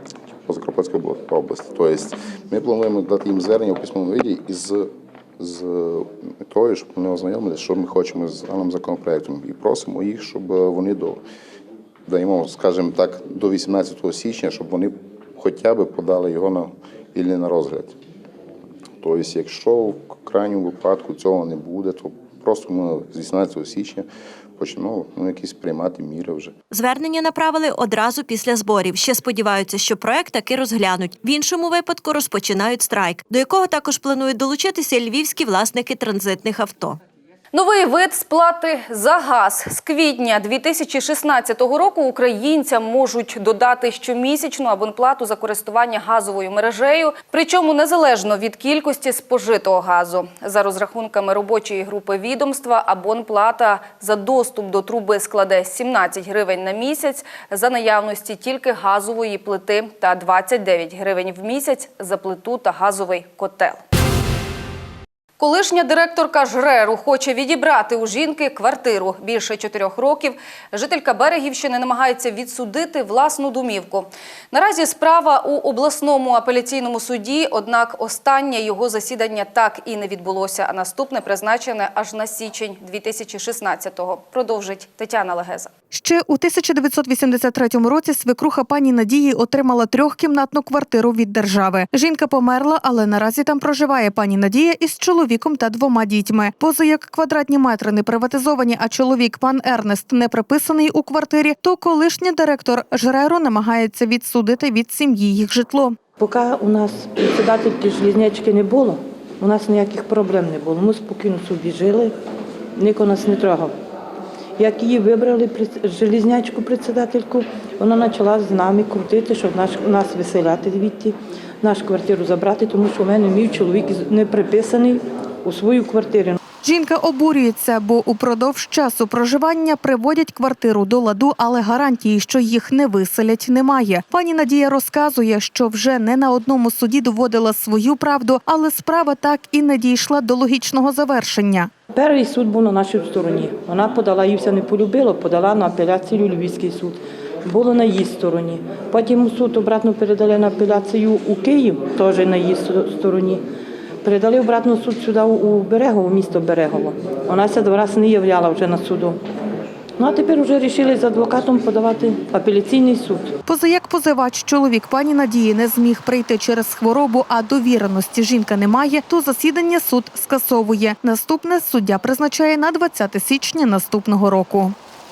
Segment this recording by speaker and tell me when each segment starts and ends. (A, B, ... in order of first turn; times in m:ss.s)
0:00.5-0:11.2 A
0:12.1-0:18.0 A
0:19.0-0:24.1 A
0:24.6-0:26.5 A
0:26.7-0:37.0 B
0:37.5-1:03.8 C
1:05.4-1:25.7 C
1:25.9-1:46.0 D
1:46.2-1:52.2 E
1:52.8-1:53.7 E
1:54.6-2:06.4 E
2:06.6-2:21.7 D
2:21.9-2:33.4 E
2:34.0-2:39.2 E
2:40.0-2:43.3 E
2:43.5-2:54.7 D